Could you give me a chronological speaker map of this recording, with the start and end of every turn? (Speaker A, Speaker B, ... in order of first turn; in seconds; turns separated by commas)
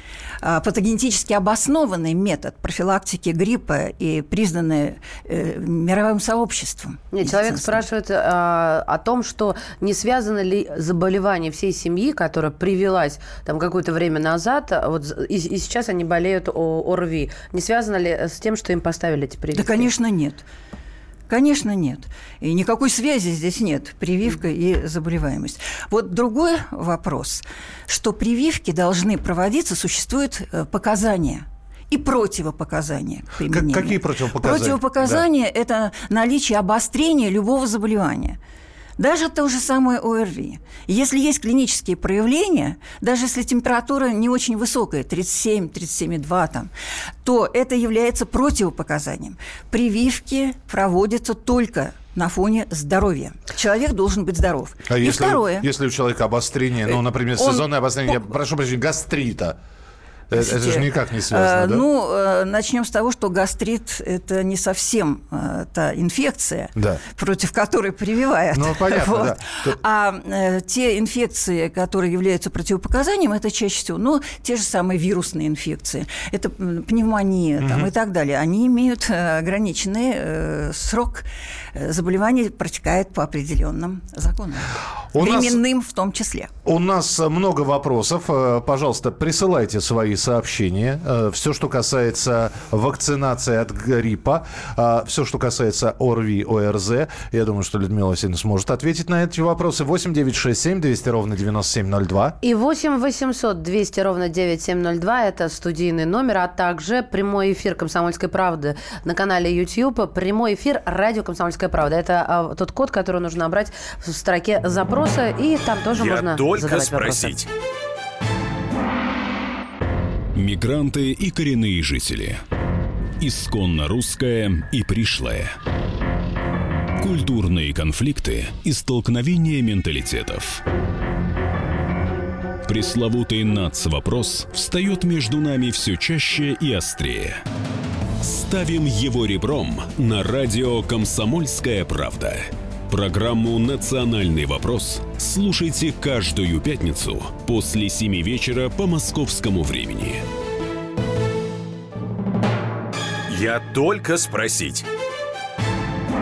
Speaker A: 0.4-7.8, Speaker B: 7.1-19.9, Speaker A: 19.5-20.4, Speaker A: 21.3-38.4, Speaker C: 33.5-35.2, Speaker A: 39.0-46.7, Speaker A: 47.2-55.7, Speaker C: 54.9-59.5, Speaker A: 56.9-58.3, Speaker C: 60.3-61.8, Speaker A: 60.3-86.5, Speaker C: 66.8-67.0, Speaker C: 68.5-69.8, Speaker C: 77.6-77.9, Speaker C: 85.1-85.6, Speaker C: 86.6-102.4, Speaker B: 102.4-117.3, Speaker D: 115.9-117.5, Speaker E: 120.3-122.4, Speaker E: 123.2-125.5, Speaker E: 127.0-130.6, Speaker E: 132.7-137.4, Speaker E: 138.2-150.2, Speaker D: 153.3-154.8